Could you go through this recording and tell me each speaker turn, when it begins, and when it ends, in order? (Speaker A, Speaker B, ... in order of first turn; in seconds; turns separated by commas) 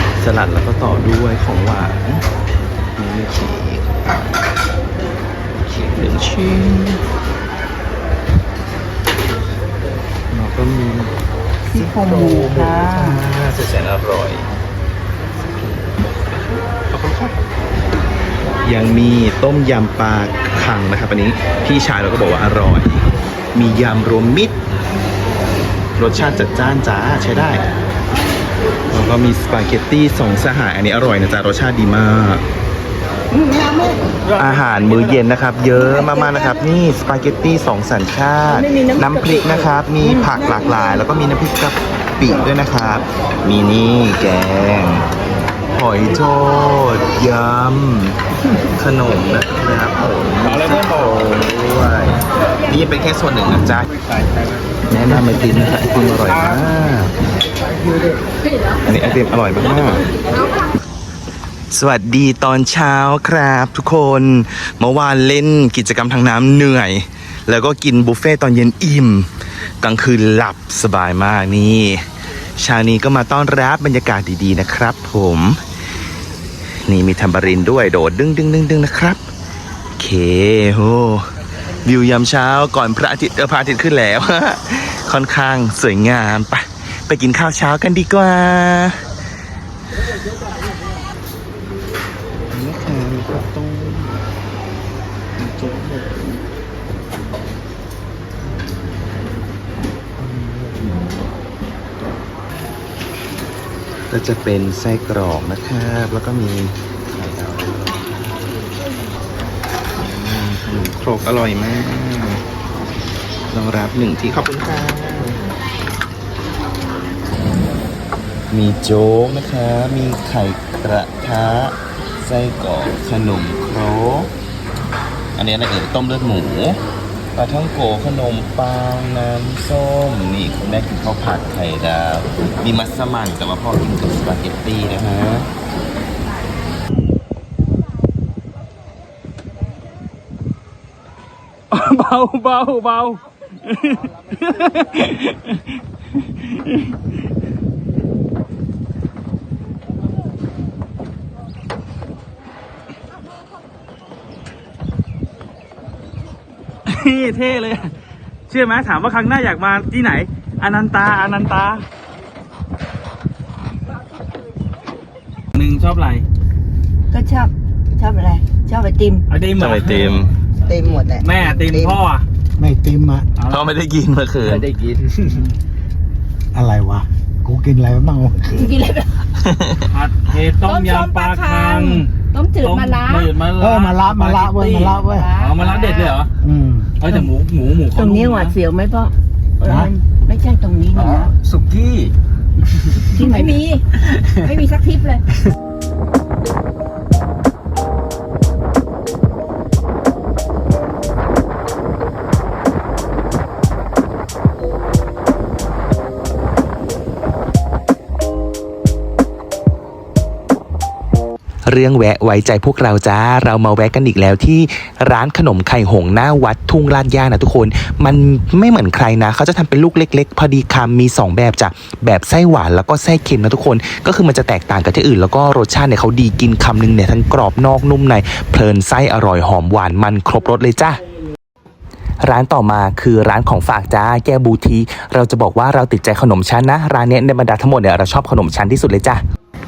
Speaker A: 0.2-2.2, Speaker A: 3.0-4.3, Speaker A: 5.6-7.1, Speaker A: 10.3-11.1, Speaker A: 11.7-14.5, Speaker B: 11.7-13.2, Speaker A: 16.8-17.4, Speaker A: 18.6-24.6, Speaker A: 26.0-27.7, Speaker A: 28.9-32.4, Speaker B: 33.3-34.0, Speaker A: 34.4-45.1, Speaker C: 34.4-34.9, Speaker B: 36.0-36.4, Speaker B: 38.5-40.8, Speaker A: 45.7-48.2, Speaker A: 48.8-53.9, Speaker C: 50.5-51.1, Speaker C: 54.1-54.5, Speaker A: 54.9-57.2, Speaker A: 58.8-60.0, Speaker A: 61.7-69.3, Speaker A: 69.8-72.0, Speaker A: 72.6-75.6, Speaker A: 76.8-79.2, Speaker A: 80.0-81.3, Speaker A: 81.8-89.0, Speaker A: 92.5-94.2, Speaker A: 95.4-96.3, Speaker A: 100.2-100.9, Speaker A: 104.1-108.1, Speaker A: 110.0-112.4, Speaker A: 113.5-115.4, Speaker A: 118.5-124.3, Speaker A: 125.4-126.8, Speaker A: 127.4-135.5, Speaker C: 141.7-145.6, Speaker C: 156.9-157.9, Speaker C: 158.5-161.8, Speaker C: 165.6-166.2, Speaker B: 167.1-169.2, Speaker C: 169.3-172.2, Speaker A: 169.6-170.3, Speaker B: 170.7-171.9, Speaker D: 172.6-173.3, Speaker A: 173.5-174.7, Speaker C: 174.6-175.3, Speaker D: 176.5-178.6, Speaker B: 178.5-179.2, Speaker A: 179.4-179.8, Speaker C: 179.9-186.3, Speaker B: 180.6-183.3, Speaker D: 183.6-185.3, Speaker B: 185.0-186.2, Speaker D: 186.4-187.0, Speaker C: 187.0-188.6, Speaker B: 187.9-191.3, Speaker D: 189.6-189.9, Speaker C: 191.2-192.1, Speaker B: 193.1-195.3, Speaker D: 193.2-193.6, Speaker A: 211.7-231.0, Speaker A: 232.2-239.2